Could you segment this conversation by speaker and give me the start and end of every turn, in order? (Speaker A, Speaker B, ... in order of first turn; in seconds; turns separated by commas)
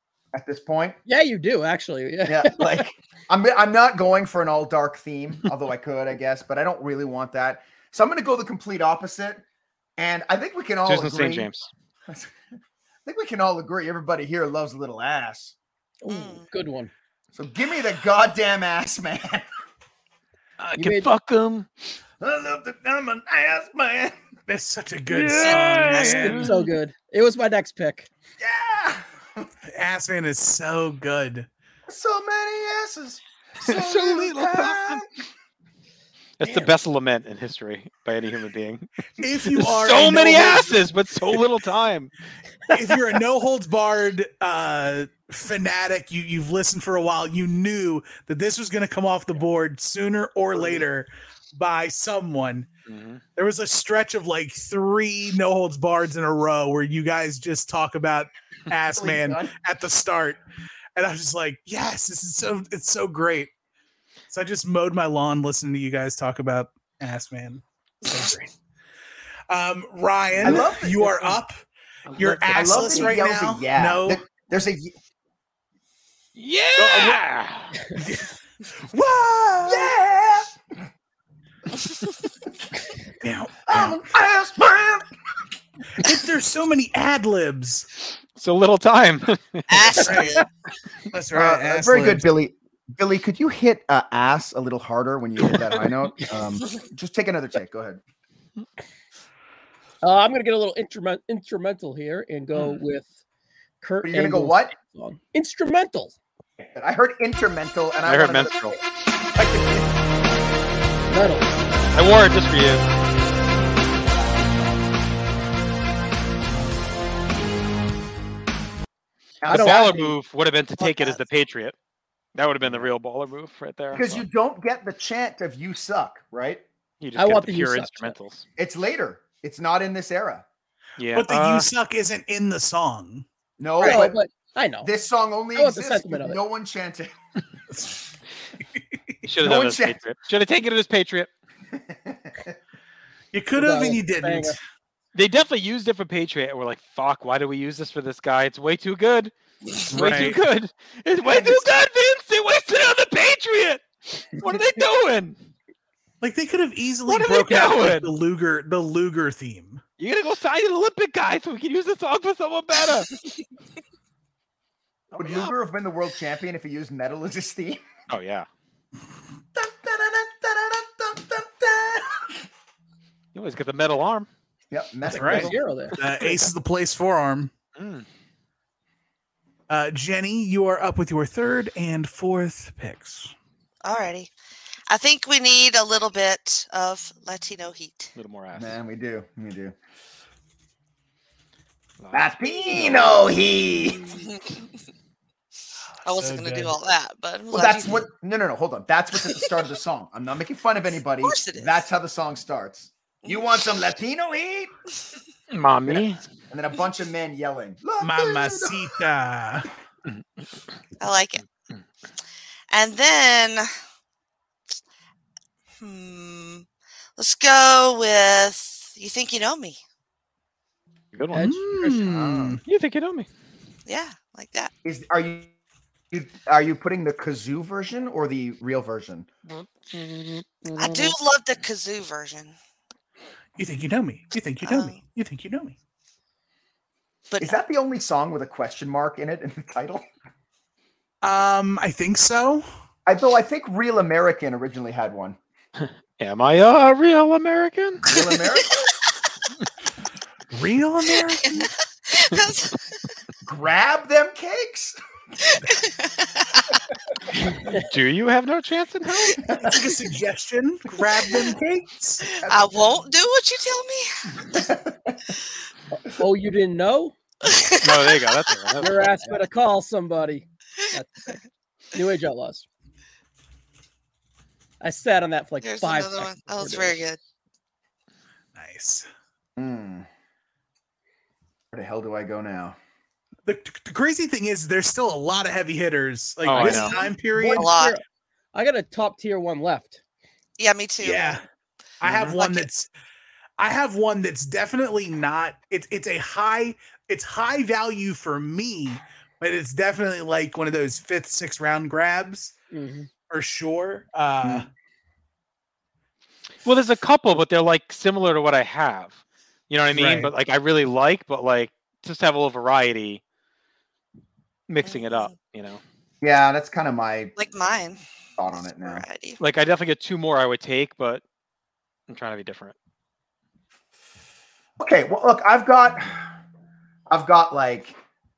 Speaker A: 0.3-1.0, Speaker B: 1.1-2.8, Speaker A: 2.3-9.4, Speaker A: 10.0-11.5, Speaker C: 10.9-11.7, Speaker A: 12.1-12.4, Speaker A: 13.1-15.5, Speaker B: 16.0-16.9, Speaker D: 16.1-16.5, Speaker A: 17.3-19.5, Speaker C: 20.6-21.7, Speaker B: 20.8-21.1, Speaker A: 22.2-24.2, Speaker E: 24.5-26.6, Speaker C: 25.1-26.6, Speaker D: 25.4-26.3, Speaker B: 26.3-28.1, Speaker A: 28.4-29.5, Speaker E: 29.7-31.5, Speaker A: 31.9-35.1, Speaker C: 33.6-35.0, Speaker C: 36.4-38.9, Speaker A: 36.4-36.7, Speaker E: 39.2-41.4, Speaker C: 39.4-42.1, Speaker E: 42.7-52.7, Speaker C: 52.9-53.2, Speaker E: 53.4-60.4, Speaker A: 58.9-59.5, Speaker E: 61.0-63.5, Speaker E: 64.3-68.5, Speaker E: 69.5-71.6, Speaker A: 70.4-71.2, Speaker E: 72.1-74.2, Speaker C: 72.2-72.8, Speaker A: 72.5-75.0, Speaker C: 76.4-77.8, Speaker E: 76.8-77.2, Speaker E: 77.9-79.9, Speaker A: 79.7-80.6, Speaker E: 83.2-84.0, Speaker A: 83.7-85.1, Speaker E: 86.0-87.9, Speaker C: 88.4-90.0, Speaker D: 89.7-90.5, Speaker E: 90.0-90.4, Speaker E: 91.1-92.3, Speaker A: 91.3-98.0, Speaker B: 100.0-103.1, Speaker B: 103.8-106.2, Speaker A: 104.0-104.8, Speaker A: 106.6-108.8, Speaker C: 108.1-108.8, Speaker A: 109.3-110.0, Speaker B: 111.1-111.6, Speaker C: 111.9-112.8, Speaker A: 114.0-114.8, Speaker A: 119.4-120.2, Speaker B: 119.5-120.1, Speaker C: 119.5-121.8, Speaker B: 120.8-121.2, Speaker C: 122.3-124.2, Speaker A: 122.6-122.9, Speaker A: 123.9-126.6, Speaker C: 127.0-128.4, Speaker B: 127.2-128.2, Speaker A: 128.6-130.5, Speaker C: 131.0-131.7, Speaker E: 131.1-133.2, Speaker A: 133.6-134.2, Speaker B: 133.8-134.9, Speaker A: 134.8-137.1, Speaker B: 135.6-136.4, Speaker C: 139.2-141.3, Speaker A: 139.4-140.0, Speaker A: 141.7-142.6, Speaker E: 143.3-144.6, Speaker B: 143.6-144.6, Speaker C: 145.2-149.3, Speaker C: 149.9-155.4, Speaker E: 149.9-150.4, Speaker A: 151.2-151.8, Speaker E: 156.2-159.8, Speaker C: 157.1-158.1, Speaker C: 160.0-163.1, Speaker C: 165.1-165.5, Speaker A: 165.2-167.8, Speaker C: 168.1-168.5, Speaker A: 169.6-172.4, Speaker C: 173.3-174.3, Speaker A: 174.7-175.6, Speaker E: 175.1-177.5, Speaker B: 175.2-176.0, Speaker C: 177.8-178.1, Speaker E: 179.7-183.3, Speaker D: 183.8-184.3, Speaker D: 184.9-188.1, Speaker C: 188.2-188.8, Speaker A: 188.5-189.8, Speaker C: 192.0-193.3, Speaker A: 192.1-194.2, Speaker D: 196.0-198.1, Speaker E: 196.1-196.8, Speaker A: 197.5-204.7, Speaker D: 201.2-201.9, Speaker C: 205.5-206.2, Speaker A: 205.9-209.0, Speaker E: 208.0-209.7, Speaker C: 210.1-210.4, Speaker D: 211.0-211.4, Speaker D: 212.7-213.7, Speaker D: 215.8-216.7, Speaker D: 217.2-219.8, Speaker C: 221.1-221.6, Speaker B: 221.3-221.9, Speaker E: 221.3-222.6, Speaker A: 221.9-222.6, Speaker C: 222.7-223.3, Speaker D: 223.9-224.7, Speaker A: 224.8-225.5, Speaker A: 226.1-229.3, Speaker C: 229.5-231.2, Speaker D: 230.8-232.6, Speaker E: 233.6-235.8, Speaker D: 234.6-235.0, Speaker D: 237.3-237.6, Speaker A: 237.4-240.1, Speaker E: 241.2-242.7, Speaker A: 243.1-245.4, Speaker C: 245.8-248.0, Speaker A: 248.0-248.8, Speaker E: 250.5-251.7, Speaker D: 251.4-253.1, Speaker A: 253.4-255.0, Speaker D: 255.4-256.7, Speaker C: 257.6-259.4, Speaker A: 259.5-259.8, Speaker E: 259.6-262.2, Speaker D: 262.3-264.5, Speaker A: 262.4-262.7, Speaker A: 264.5-265.2, Speaker B: 265.9-267.1, Speaker D: 267.4-268.3, Speaker C: 267.8-269.2, Speaker B: 268.8-271.4, Speaker B: 271.9-272.6, Speaker B: 274.8-277.0, Speaker D: 275.6-277.2, Speaker E: 278.6-279.1, Speaker A: 279.6-280.1, Speaker A: 281.7-282.8, Speaker E: 283.5-287.7, Speaker C: 286.4-287.0, Speaker D: 286.6-288.0, Speaker B: 287.3-288.0, Speaker B: 288.5-290.0, Speaker D: 290.6-291.4, Speaker E: 291.0-291.4, Speaker E: 292.0-292.9, Speaker C: 292.1-292.4, Speaker D: 292.1-292.7, Speaker E: 293.6-302.5, Speaker B: 302.7-303.1, Speaker E: 303.3-304.7, Speaker C: 306.6-309.2, Speaker C: 309.7-313.2, Speaker E: 309.9-310.3, Speaker C: 314.7-315.8, Speaker D: 314.8-315.3, Speaker A: 316.2-317.3, Speaker D: 317.4-318.0, Speaker A: 318.4-319.1, Speaker D: 318.6-319.4, Speaker C: 319.4-321.2, Speaker C: 322.1-322.8, Speaker A: 324.8-326.3, Speaker A: 327.1-328.0